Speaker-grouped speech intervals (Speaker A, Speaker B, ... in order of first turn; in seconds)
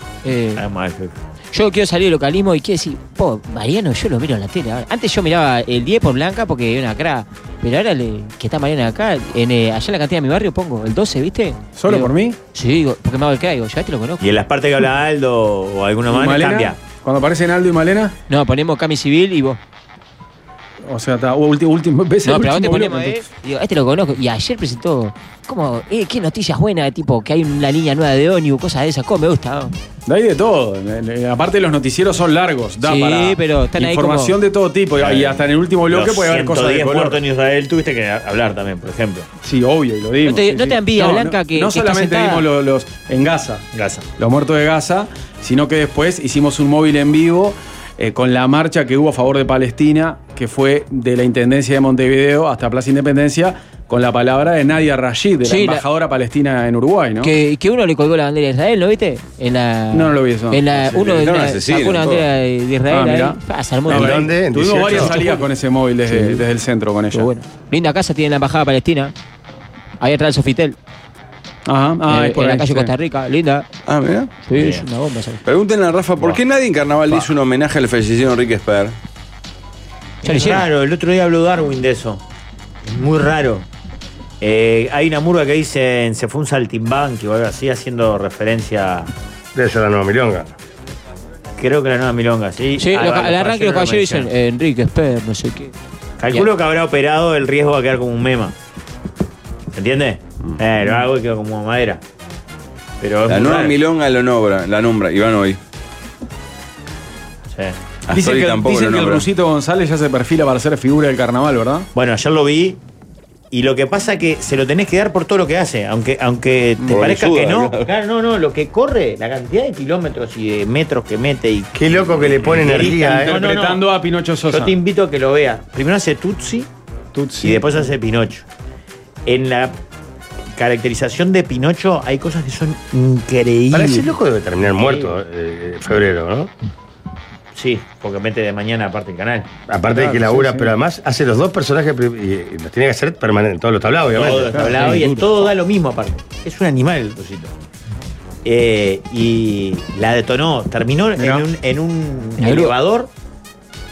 Speaker A: 0.2-0.6, 1.5-14.2, 18.3-19.6, 22.2-29.7, 32.8-34.4, 40.2-42.5, 55.4-55.8, 57.2-64.3, 64.8-65.5, 66.1-66.4, 67.1-69.1, 70.0-70.8, 72.1-73.7, 74.4-75.4, 80.2-80.7, 92.8-95.7, 144.7-145.5, 152.4-152.7
Speaker B: 0.6-1.1, 14.2-16.8, 35.0-39.3, 43.7-44.0, 74.5-74.8, 80.2-82.2, 82.8-83.7, 84.4-89.1, 91.6-94.3, 96.2-98.5, 99.7-102.0, 103.0-103.8, 107.5-107.8, 112.0-112.8, 113.5-123.9, 124.5-126.7, 127.4-128.4, 129.3-129.8, 130.6-134.1, 134.8-135.2, 137.6-139.5, 144.1-147.5, 148.4-153.1
Speaker C: 11.8-12.4, 16.1-18.1, 20.9-23.2, 30.1-37.2, 39.4-43.6, 44.2-57.3, 59.9-60.6, 62.9-67.3, 71.7-72.9, 108.1-111.9, 123.2-124.7, 127.1-127.8, 139.9-140.7, 144.5-144.9, 151.2-151.4
Speaker D: 60.7-62.3, 73.9-74.3, 75.5-79.0, 103.3-105.6, 108.1-109.3, 116.8-117.9
Speaker E: 63.9-65.2, 89.5-90.5, 121.8-123.4, 133.7-136.5, 139.7-144.7